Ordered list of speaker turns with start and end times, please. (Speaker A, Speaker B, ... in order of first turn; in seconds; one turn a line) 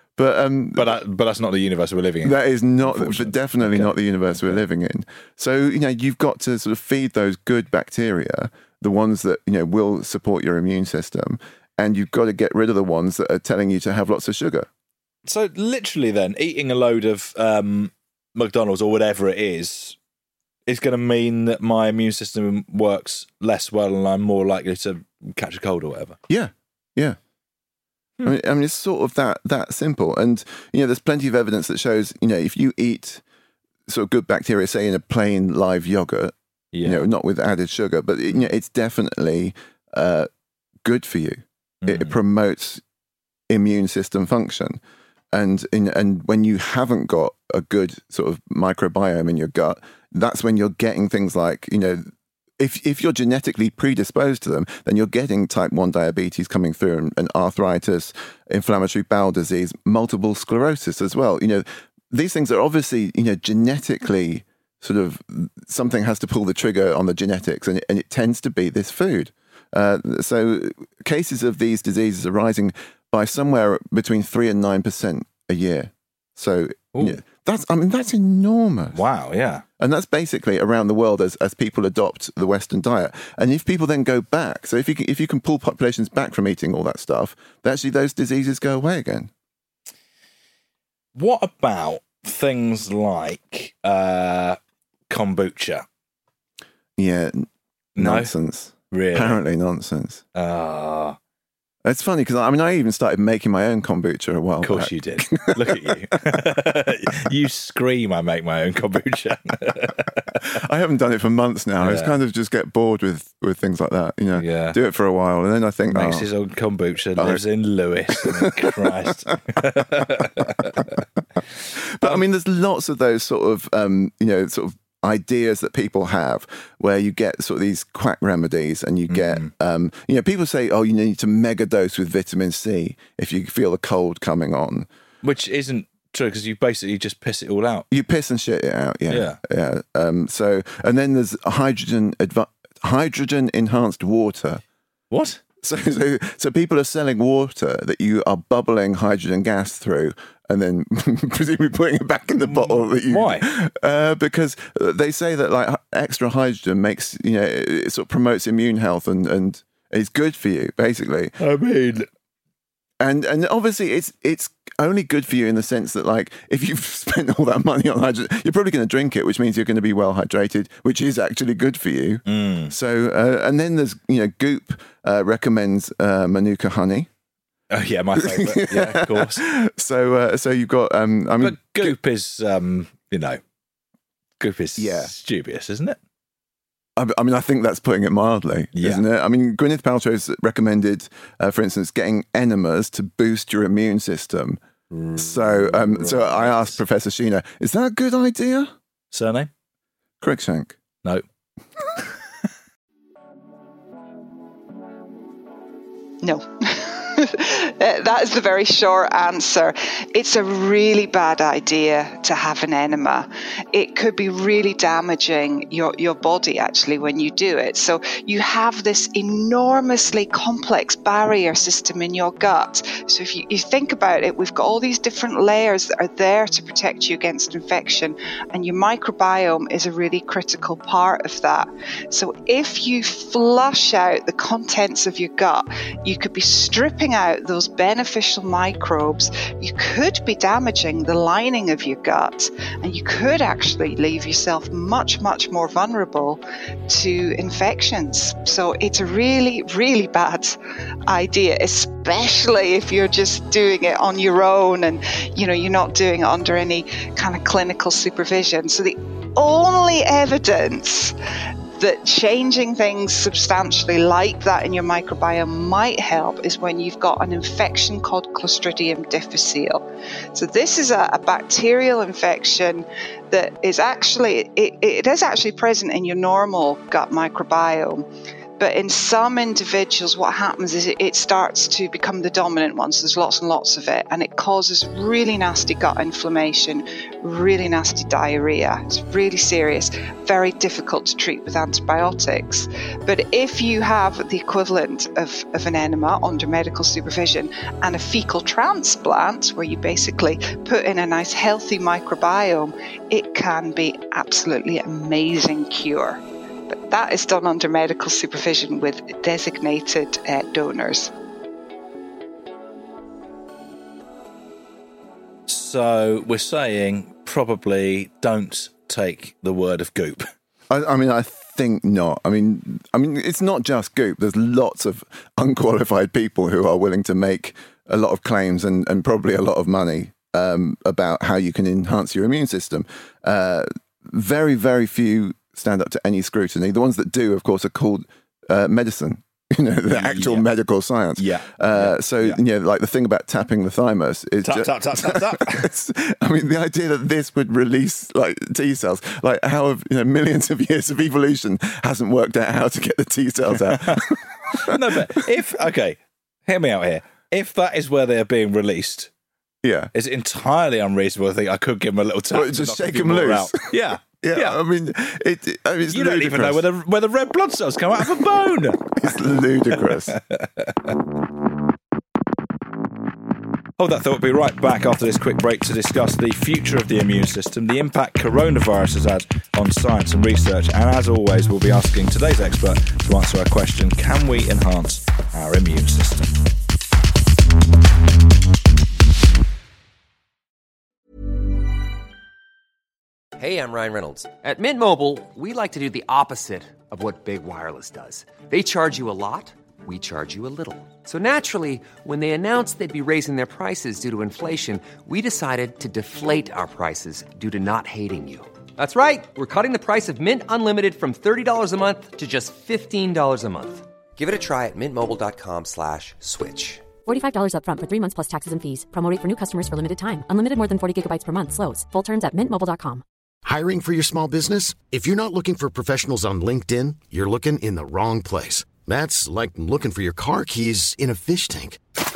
Speaker A: 0.2-1.0
Speaker B: 0.7-4.6
Speaker A: 2.2-14.7
Speaker B: 15.2-20.0
Speaker B: 20.7-26.2
Speaker A: 26.3-27.2
Speaker A: 28.2-33.2
Speaker A: 33.9-40.3
Speaker B: 36.7-37.1
Speaker A: 40.8-42.8
Speaker B: 41.8-42.2
Speaker A: 43.5-44.8
Speaker A: 45.3-79.0
Speaker B: 76.9-77.2
Speaker B: 78.9-79.6
Speaker A: 79.8-89.3
Speaker B: 91.1-95.8
Speaker A: 97.0-100.2
Speaker B: 98.0-98.3
Speaker B: 98.9-99.4
Speaker B: 100.3-101.2
Speaker A: 101.8-106.4
Speaker B: 104.6-110.4
Speaker A: 110.5-116.3
Speaker B: 111.8-112.1
Speaker B: 114.3-114.8
Speaker B: 115.9-121.0
Speaker A: 117.2-117.4
Speaker A: 118.1-119.3
Speaker A: 120.2-120.9
Speaker A: 121.7-134.9
Speaker B: 129.1-129.5
Speaker B: 135.2-137.9
Speaker A: 137.9-144.6
Speaker B: 139.1-139.4
Speaker B: 145.1-145.4
Speaker A: 145.6-161.3
Speaker B: 152.3-153.5
Speaker B: 161.4-162.1
Speaker A: 163.0-177.1
Speaker B: 172.3-172.7
Speaker B: 177.7-179.4
Speaker A: 178.1-181.9
Speaker B: 181.4-183.4
Speaker B: 184.4-186.0
Speaker A: 184.8-185.1
Speaker A: 187.0-194.6
Speaker B: 188.7-189.0
Speaker B: 194.9-196.8
Speaker A: 195.2-198.7
Speaker B: 199.1-199.5
Speaker A: 200.2-200.8
Speaker C: 206.2-250.6
Speaker C: 251.1-261.1
Speaker C: 261.8-278.1
Speaker C: 278.6-311.1
Speaker B: 315.5-320.3
Speaker A: 320.7-355.0
Speaker B: 339.9-340.5
Speaker B: 341.2-342.4
Speaker B: 344.4-345.7
Speaker B: 353.5-359.1
Speaker A: 359.6-359.9
Speaker B: 359.9-364.6
Speaker A: 362.3-366.6
Speaker B: 365.9-369.0
Speaker A: 368.9-370.2
Speaker B: 369.7-370.9
Speaker B: 373.8-386.3
Speaker D: 393.4-416.9
Speaker E: 417.0-423.0
Speaker F: 423.4-431.8